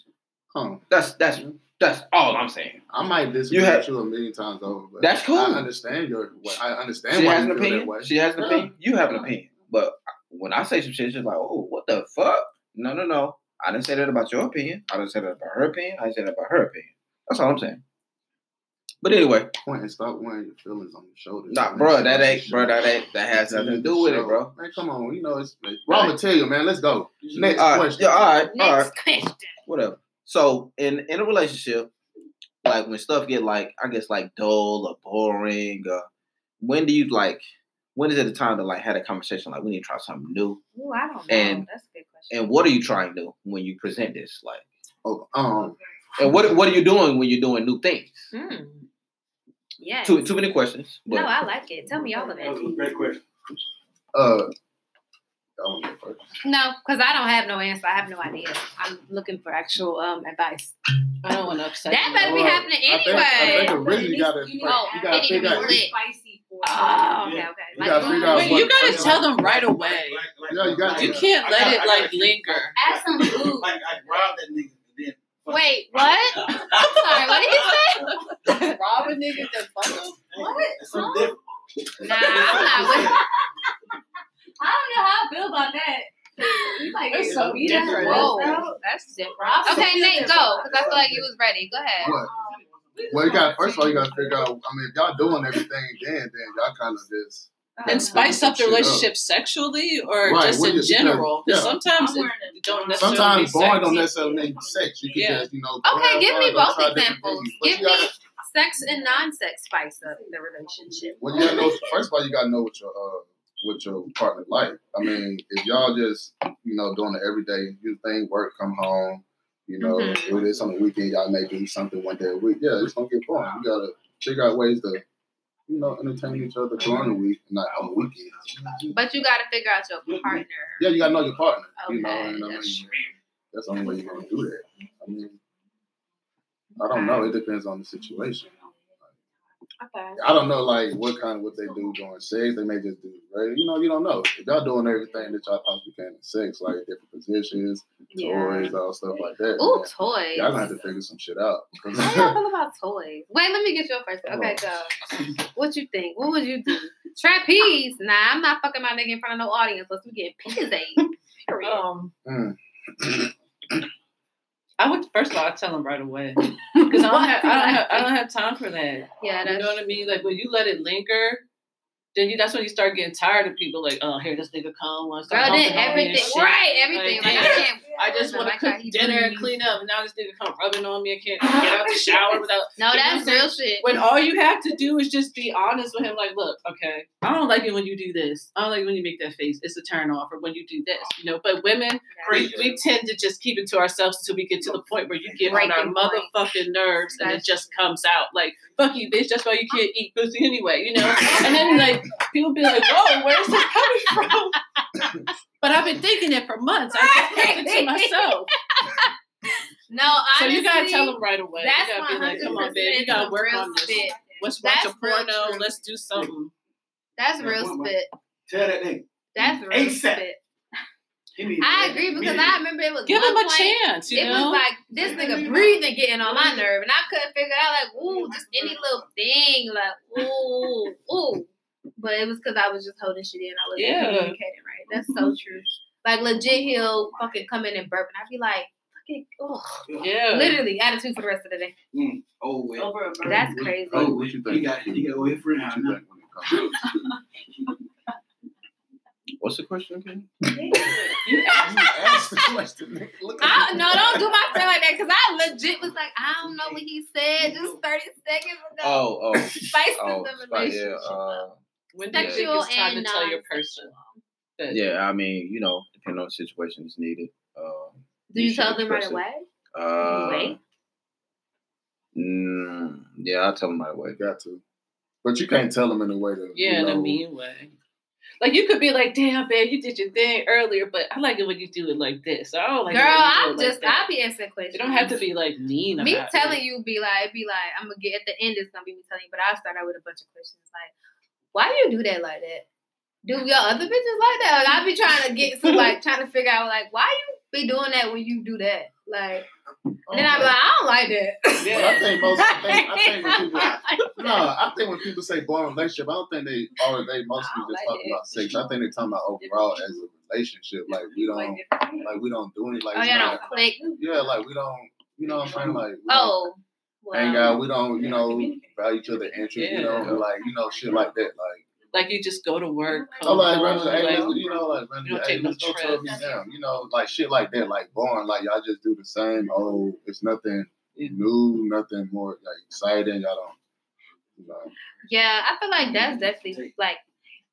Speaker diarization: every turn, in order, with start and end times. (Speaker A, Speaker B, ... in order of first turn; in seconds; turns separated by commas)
Speaker A: 0.5-1.6, Speaker B: 0.9-2.8, Speaker A: 2.9-8.7, Speaker B: 3.5-3.9, Speaker B: 5.0-5.7, Speaker B: 7.1-17.8, Speaker B: 19.0-19.5, Speaker A: 19.6-28.4, Speaker B: 21.5-24.5, Speaker C: 27.2-27.7, Speaker B: 27.6-28.9, Speaker D: 28.5-29.6, Speaker B: 29.6-31.9, Speaker B: 32.6-36.1, Speaker B: 36.6-40.6, Speaker D: 40.7-42.4, Speaker B: 41.3-41.6, Speaker B: 42.3-44.6, Speaker A: 45.0-45.8, Speaker B: 46.1-48.3, Speaker D: 48.3-48.9, Speaker D: 49.8-50.3, Speaker B: 50.0-51.3, Speaker D: 51.1-52.8, Speaker E: 52.1-53.0, Speaker C: 52.4-53.2, Speaker A: 54.1-54.5, Speaker A: 55.6-56.2, Speaker D: 56.4-60.7, Speaker F: 61.2-62.5, Speaker D: 61.9-63.9, Speaker A: 62.2-65.9, Speaker E: 63.1-67.3, Speaker D: 64.6-65.9, Speaker D: 66.6-68.8, Speaker C: 67.2-68.0, Speaker A: 67.7-69.3, Speaker E: 67.8-68.7, Speaker F: 68.2-70.2, Speaker C: 68.8-77.7, Speaker A: 70.5-71.3, Speaker F: 70.9-72.7, Speaker D: 72.8-73.7, Speaker D: 75.5-78.7, Speaker F: 76.8-80.2, Speaker C: 80.3-81.4, Speaker E: 80.3-81.3, Speaker D: 80.9-81.3, Speaker C: 82.0-83.2, Speaker D: 82.0-83.2, Speaker E: 82.2-83.3, Speaker E: 84.6-88.8, Speaker D: 86.4-86.9, Speaker F: 87.1-88.5, Speaker C: 87.2-88.5, Speaker D: 87.6-92.2, Speaker E: 89.3-91.0, Speaker C: 89.8-91.2, Speaker A: 92.0-92.3, Speaker E: 92.1-94.5, Speaker A: 93.1-99.1, Speaker E: 97.8-98.3, Speaker D: 97.8-98.2, Speaker F: 97.9-104.1, Speaker A: 100.2-101.8, Speaker E: 101.9-105.0, Speaker A: 103.0-108.1, Speaker F: 105.1-105.5, Speaker D: 105.8-111.8, Speaker E: 110.0-111.9, Speaker A: 111.2-125.0, Speaker D: 119.8-120.4, Speaker A: 125.7-129.0, Speaker C: 127.7-128.8, Speaker D: 128.9-130.9, Speaker C: 130.1-130.4, Speaker A: 130.8-132.9, Speaker D: 131.8-133.1, Speaker A: 133.5-135.4, Speaker D: 136.8-137.3, Speaker A: 136.8-138.5, Speaker D: 139.8-140.2, Speaker A: 140.2-152.4, Speaker D: 148.1-148.8, Speaker D: 149.6-150.7, Speaker D: 151.9-161.8, Speaker A: 154.2-154.6, Speaker F: 161.6-162.1, Speaker A: 162.2-163.3, Speaker F: 164.8-171.4, Speaker D: 166.8-168.1, Speaker D: 169.2-169.9, Speaker F: 172.1-204.6, Speaker D: 175.3-179.6, Speaker E: 175.3-178.3, Speaker D: 182.8-183.9, Speaker D: 192.1-192.8, Speaker C: 192.2-192.8, Speaker C: 194.6-195.7, Speaker D: 195.4-196.3, Speaker D: 197.1-197.7, Speaker D: 201.2-202.0, Speaker E: 201.3-201.7, Speaker D: 202.8-204.3, Speaker F: 205.6-208.5, Speaker D: 206.9-209.1, Speaker D: 209.9-215.7, Speaker F: 210.3-216.5, Speaker C: 212.2-212.7, Speaker E: 213.7-214.4, Speaker D: 217.2-218.1, Speaker C: 217.4-217.9, Speaker C: 218.5-220.2, Speaker D: 219.3-220.4, Speaker C: 221.4-222.6, Speaker D: 221.6-241.7, Speaker F: 223.1-224.7, Speaker C: 224.9-226.6, Speaker C: 228.0-229.1, Speaker F: 233.8-234.4, Speaker C: 236.4-237.4, Speaker F: 240.0-240.6, Speaker C: 241.9-243.0, Speaker E: 242.7-243.6, Speaker D: 243.2-244.2, Speaker A: 243.3-246.8, Speaker C: 243.9-246.0, Speaker C: 246.5-246.8, Speaker B: 249.4-250.3, Speaker E: 250.6-251.2, Speaker D: 251.1-252.4, Speaker F: 251.3-251.7, Speaker A: 251.5-254.4, Speaker D: 253.4-261.4, Speaker C: 257.4-257.7, Speaker B: 258.8-261.6, Speaker F: 261.9-263.9, Speaker D: 262.1-264.2, Speaker B: 262.1-262.5, Speaker F: 264.6-264.8, Speaker B: 264.7-269.2, Speaker D: 268.3-269.4, Speaker B: 269.7-270.6, Speaker D: 270.0-270.6, Speaker B: 272.1-274.2, Speaker A: 274.1-274.6, Speaker A: 275.2-277.2, Speaker F: 276.5-277.7, Speaker F: 278.4-284.1, Speaker D: 282.9-285.2, Speaker F: 284.7-286.6, Speaker D: 286.0-290.9, Speaker D: 291.5-292.6, Speaker D: 293.2-299.5, Speaker A: 300.1-300.6, Speaker D: 300.1-304.5, Speaker A: 301.6-313.4, Speaker F: 301.6-302.0, Speaker D: 307.4-308.2, Speaker E: 308.4-308.8, Speaker E: 309.4-310.0, Speaker E: 310.9-312.2, Speaker D: 312.9-313.8, Speaker E: 312.9-314.4, Speaker A: 313.9-316.5, Speaker E: 315.2-315.8, Speaker D: 316.1-317.6, Speaker A: 317.1-321.6, Speaker E: 317.9-319.7, Speaker F: 319.6-320.1, Speaker E: 320.2-321.2, Speaker F: 321.9-324.4, Speaker E: 322.8-324.8, Speaker A: 323.2-333.6, Speaker F: 325.0-326.1, Speaker E: 325.9-326.6, Speaker A: 334.4-334.7, Speaker D: 335.1-337.0, Speaker C: 336.0-336.7